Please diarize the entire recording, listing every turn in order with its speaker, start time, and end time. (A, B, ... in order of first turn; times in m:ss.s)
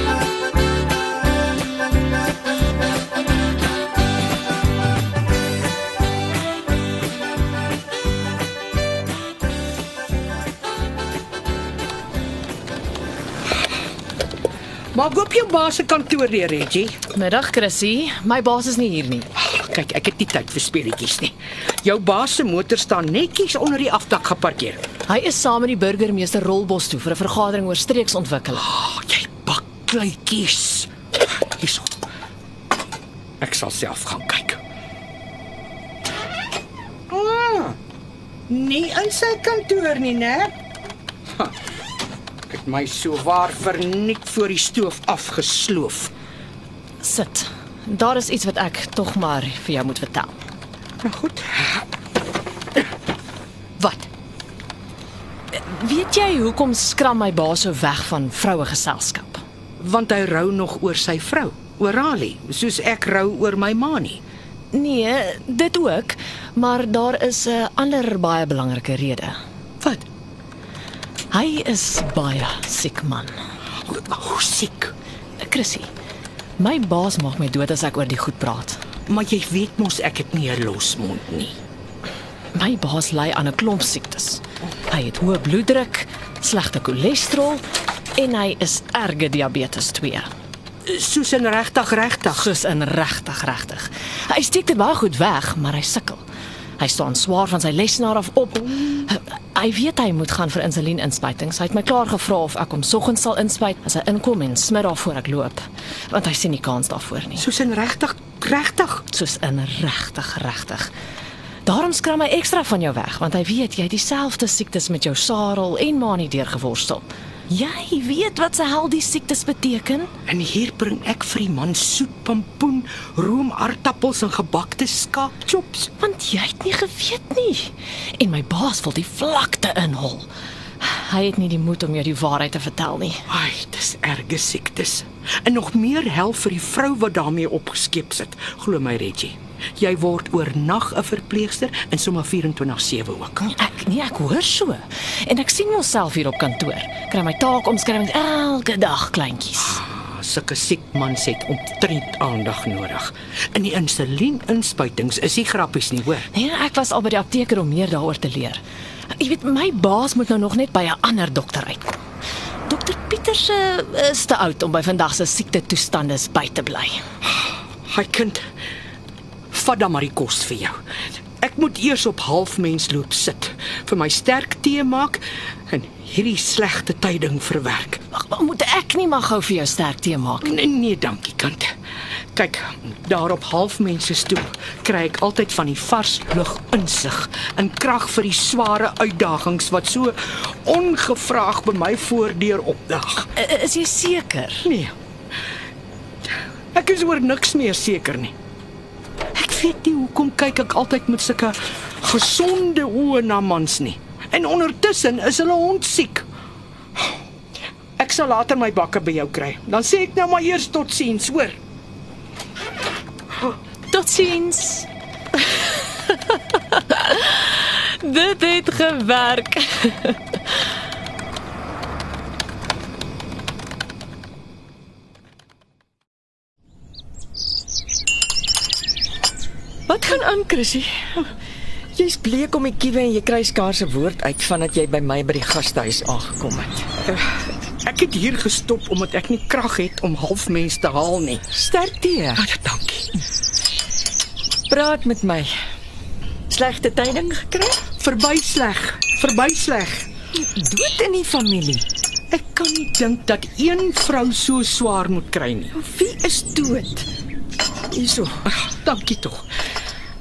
0:14.9-0:17.0 A
0:17.1-0:19.3 B
0:19.4-0:24.8 A
0:25.0-0:28.7 B
0:28.6-0:30.9 A
0:31.6-0:32.0 A
0:33.4-0:34.6 A
0:37.1-0:37.8 A
0:38.5-0:40.5 A
0:42.5-0:46.1 A
0:47.0-0:50.4 B
0:51.0-0:51.8 A
0:53.8-0:54.1 A
0:55.5-0:59.4 B
0:59.8-1:04.2 A
1:04.7-1:09.9 B
1:11.3-1:13.4 B
1:13.8-1:14.9 A
1:15.4-1:15.9 B
1:16.6-1:18.8 B
1:19.1-1:21.6 A
1:22.5-1:27.6 B
1:28.2-1:30.3 B
1:30.8-1:32.5 A
1:32.3-1:36.2 B
1:36.8-1:47.4 B
1:47.4-1:49.0 A
1:49.1-1:50.9 B
1:51.6-2:00.1 B
2:00.3-2:05.9 A
2:06.0-2:10.3 B
2:10.8-2:13.2 B
2:13.3-2:23.5 A
2:23.5-2:29.8 B
2:29.6-2:36.3 A
2:36.3-2:38.6 B
2:39.1-2:42.0 B
2:42.6-2:47.0 B
2:47.9-2:48.4 A
2:49.5-2:50.8 A
2:51.4-2:58.0 A
2:58.1-3:00.5 B
3:00.4-3:01.7 A
3:02.3-3:13.3 A
3:13.3-3:14.7 B
3:14.6-3:14.9 A
3:16.7-3:18.3 A
3:19.3-3:26.2 A
3:28.0-3:31.6 A
3:33.9-3:34.9 B
3:35.5-3:40.2 B
3:49.9-3:51.3 C
3:52.0-3:56.9 C
3:57.8-4:01.4 A
4:01.5-4:02.5 C
4:02.4-4:03.1 A
4:04.7-4:05.5 C
4:06.5-4:07.8 C
4:08.0-4:10.1 A
4:10.3-4:11.8 C
4:12.3-4:15.7 A
4:15.7-4:17.1 C
4:17.9-4:18.5 C
4:18.5-4:19.4 A